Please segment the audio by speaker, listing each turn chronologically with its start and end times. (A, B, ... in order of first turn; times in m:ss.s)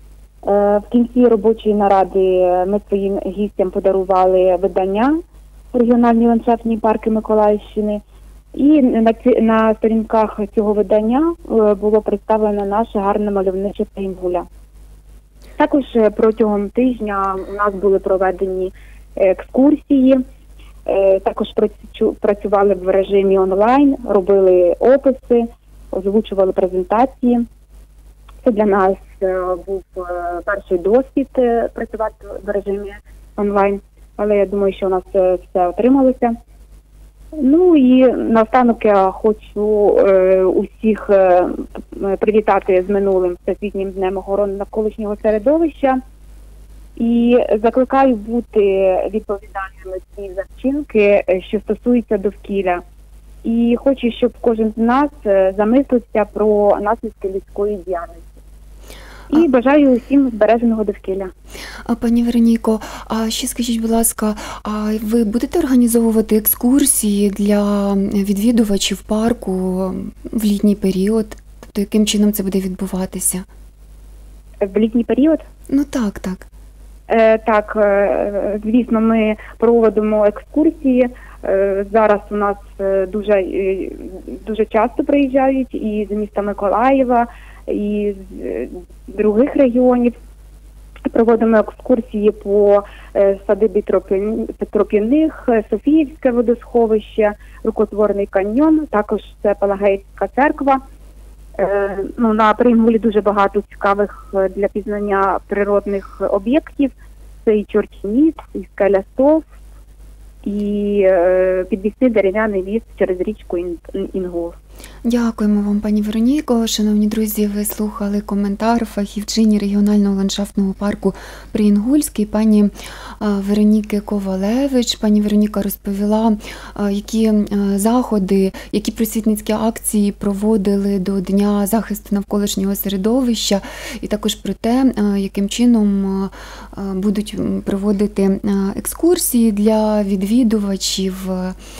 0:00.4-0:05.2 A
0:05.7-0:08.0 A
0:08.6-0:14.5 A
0:15.6-0:20.2 A
0:20.9-0:27.5 A
0:28.4-0:36.4 A
0:37.4-0:46.0 A
0:47.0-0:52.8 A
0:53.4-0:58.3 A
0:59.3-1:01.3 A
1:01.9-1:13.5 B
1:14.6-1:15.4 A
1:15.7-1:16.5 B
1:17.1-1:30.2 A
1:31.0-1:40.8 A
1:41.6-1:46.9 A
1:47.4-1:49.4 A
1:50.4-1:54.6 A
1:55.0-2:21.6 B